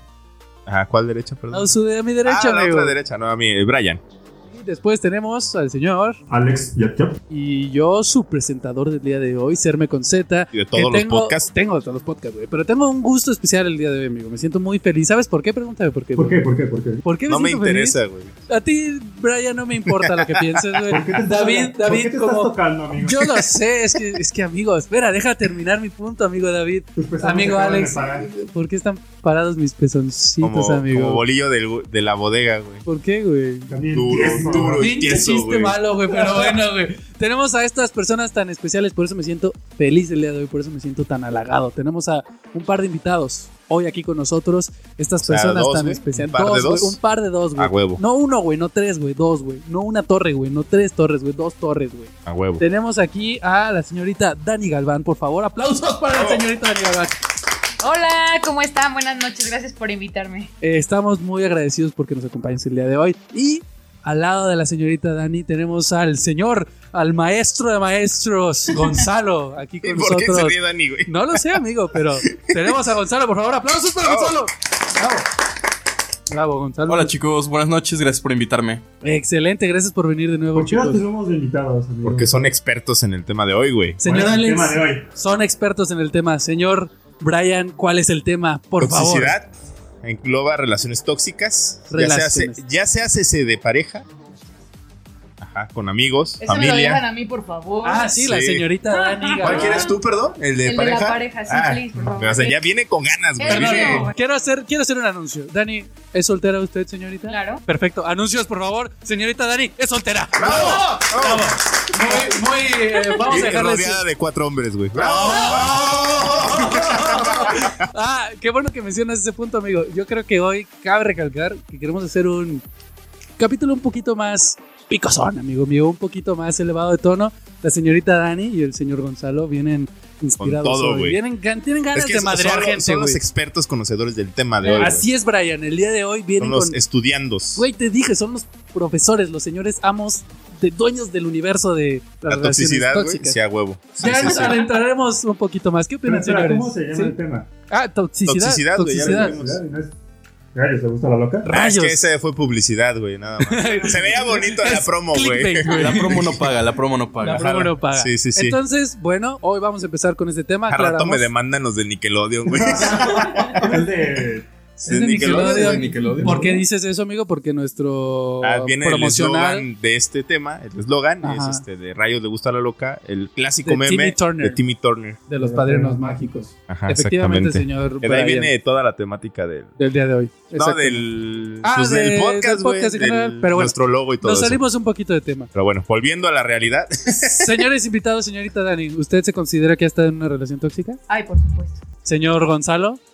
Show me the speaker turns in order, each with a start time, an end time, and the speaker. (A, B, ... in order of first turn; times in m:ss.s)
0:00.7-0:01.7 A
0:01.5-0:03.0 B
0:02.2-0:04.0 A
0:04.5-0:06.2 B
0:06.3-0:07.2 C
0:07.3-0:16.4 B
0:10.5-0:11.5 A
0:16.2-0:17.0 C
0:17.0-0:18.0 B
0:17.3-0:18.3 A
0:18.5-0:31.2 B
0:19.9-0:20.7 A
0:20.9-0:23.3 C
0:27.0-0:28.3 C
0:30.4-0:32.8 A
0:32.9-0:33.7 B
0:33.7-0:34.9 C
0:33.9-0:35.8 A
0:34.7-0:57.2 B
0:45.2-0:47.0 A
0:47.6-0:48.0 A
0:52.3-0:52.6 A
0:56.2-0:56.4 A
0:57.8-1:00.5 D
1:00.6-1:15.3 B
1:09.8-1:11.6 A
1:12.3-1:12.7 A
1:14.0-1:14.4 A
1:16.3-1:17.1 B
1:16.9-1:18.8 E
1:19.0-1:21.0 B
1:20.5-1:22.5 C
1:22.0-1:24.0 A
1:24.0-1:29.4 B
1:24.0-1:25.0 C
1:28.8-1:29.5 A
1:30.0-1:34.1 A
1:31.9-1:32.6 B
1:35.4-1:37.0 A
1:36.4-1:38.2 D
1:37.8-1:39.9 B
1:38.2-1:38.7 A
1:38.9-1:40.0 D
1:39.4-1:44.1 A
1:40.6-1:42.6 D
1:43.4-1:44.1 D
1:43.4-1:54.0 B
1:47.3-1:47.6 D
1:50.3-1:52.2 A
1:53.1-1:57.9 A
1:55.0-2:02.6 B
2:03.4-2:13.2 B
2:10.4-2:11.2 A
2:11.9-2:15.1 A
2:14.6-2:15.0 D
2:14.7-2:16.8 B
2:16.4-2:17.6 A
2:17.6-2:23.4 B
2:22.3-2:24.6 A
2:24.0-2:27.2 B
2:26.1-2:27.5 C
2:27.7-2:29.4 B
2:28.2-2:29.6 A
2:29.0-2:29.9 C
2:30.5-2:31.5 C
2:31.4-2:32.0 B
2:31.5-2:36.3 A
2:33.4-2:36.3 B
2:35.7-2:37.6 E
2:37.2-2:41.3 B
2:37.3-2:38.6 A
2:40.7-2:43.7 A
2:42.6-2:44.5 C
2:44.8-2:46.0 A
2:44.8-2:49.7 B
2:45.1-2:46.6 E
2:48.4-2:55.2 A
2:51.2-2:51.6 B
2:53.6-2:54.6 B
2:55.3-2:58.5 B
2:55.4-2:56.2 C
2:56.7-2:59.7 A
2:59.8-3:01.1 B
3:00.5-3:04.6 A
3:01.6-3:05.5 B
3:05.5-3:07.6 A
3:07.4-3:11.0 B
3:11.1-3:11.8 D
3:12.0-3:13.0 B